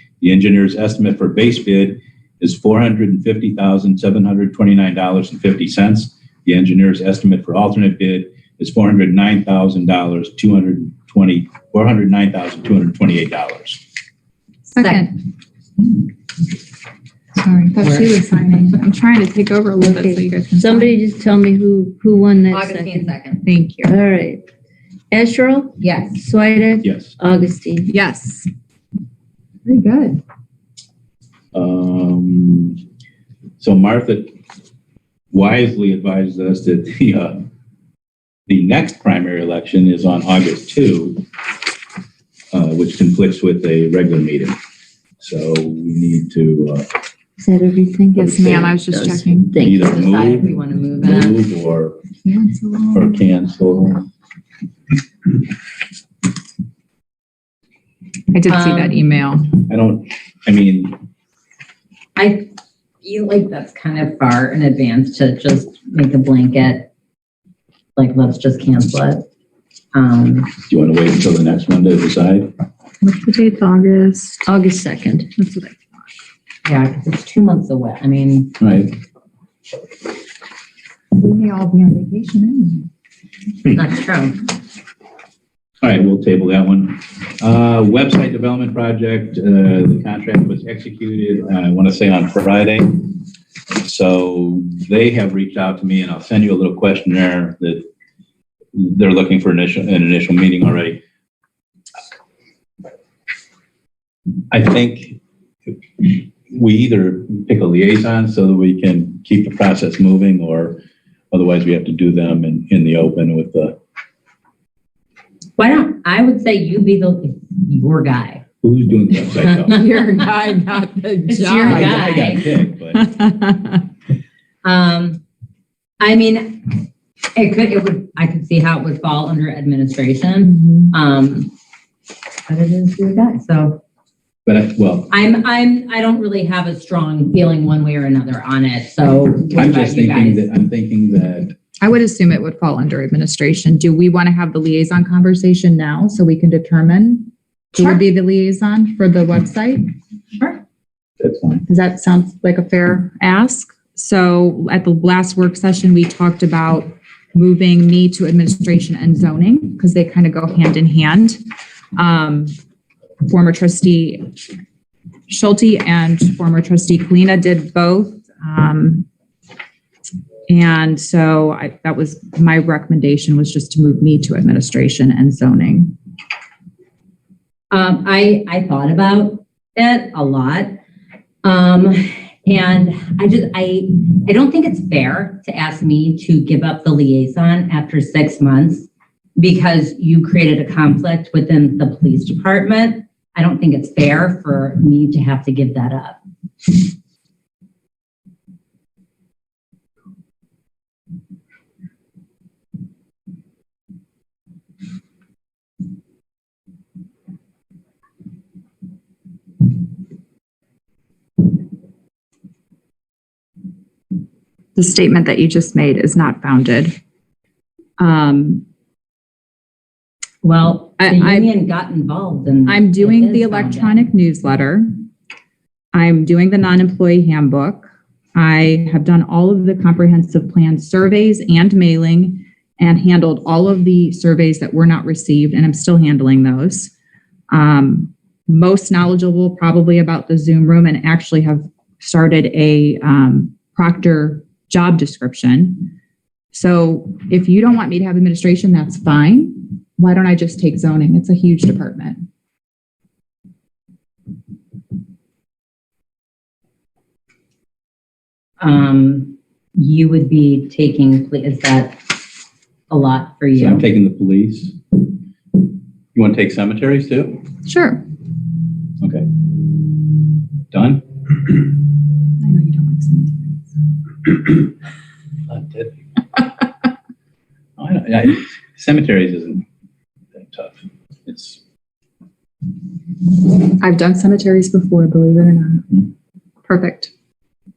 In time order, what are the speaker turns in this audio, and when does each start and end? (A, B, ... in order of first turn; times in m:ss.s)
0:00.2-0:13.8 A
0:14.6-0:15.1 B
0:14.8-0:15.1 C
0:17.4-0:21.0 B
0:17.8-0:18.1 C
0:19.8-0:23.1 D
0:22.5-0:23.4 C
0:23.4-0:24.0 B
0:23.8-0:24.4 D
0:25.1-0:27.9 D
0:25.8-0:26.1 C
0:26.8-0:27.1 A
0:27.9-0:28.5 B
0:29.6-0:30.2 B
0:31.5-0:32.8 A
0:33.6-0:34.3 A
0:35.3-0:37.4 A
0:38.5-0:41.2 A
0:42.5-0:44.6 A
0:45.2-0:46.9 A
0:47.4-0:49.9 D
0:48.2-0:48.7 A
0:48.2-0:49.5 B
0:49.6-0:52.0 A
0:49.8-0:51.4 C
0:52.2-0:53.2 B
0:52.9-0:54.0 A
0:58.3-0:59.5 B
0:58.5-0:59.0 C
0:59.7-1:01.0 A
1:02.2-1:02.5 C
1:03.0-1:06.9 C
1:08.0-1:09.3 C
1:09.9-1:10.5 C
1:10.7-1:12.5 A
1:13.0-1:14.4 B
1:14.4-1:15.3 D
1:15.4-1:16.0 B
1:16.6-1:18.5 C
1:18.6-1:19.0 A
1:21.1-1:22.9 B
1:23.7-1:24.4 C
1:25.8-1:33.1 A
1:33.8-1:37.9 A
1:38.7-1:41.0 A
1:44.5-1:45.2 A
1:46.0-1:53.8 A
1:55.6-1:58.4 C
1:58.6-1:59.8 A
1:59.3-2:00.3 C
1:59.7-2:03.8 B
2:01.3-2:02.4 C
2:01.6-2:03.1 A
2:04.6-2:05.2 C
2:06.0-2:11.5 C
2:10.6-2:10.9 B
2:12.5-2:13.8 C
2:14.4-2:15.1 A
2:15.1-2:20.5 C
2:19.5-2:21.5 A
2:21.8-2:29.9 B
2:27.7-2:28.0 C
2:31.2-2:31.6 A
2:31.7-2:41.4 B
2:42.0-2:42.5 B
2:43.2-2:44.3 B
2:45.3-2:49.1 B
2:50.5-2:55.9 B
2:57.7-3:00.8 C
3:01.4-3:16.2 C
3:34.7-3:36.9 B
3:38.0-3:38.6 B
3:40.4-3:44.0 C
3:41.0-3:41.5 B
3:42.7-3:44.9 B
3:45.9-3:56.9 B
3:57.5-4:05.9 B
4:06.5-4:12.2 B
4:18.6-4:22.0 C
4:22.9-4:23.8 C
4:23.6-4:24.8 A
4:26.1-4:27.4 A
4:27.6-4:28.0 B
4:29.0-4:29.3 A
4:30.7-4:31.0 A
4:32.4-4:33.6 B
4:35.5-4:36.0 A
4:37.8-4:39.6 A
4:40.3-4:41.6 A
4:43.8-4:46.0 B
4:46.7-4:47.1 B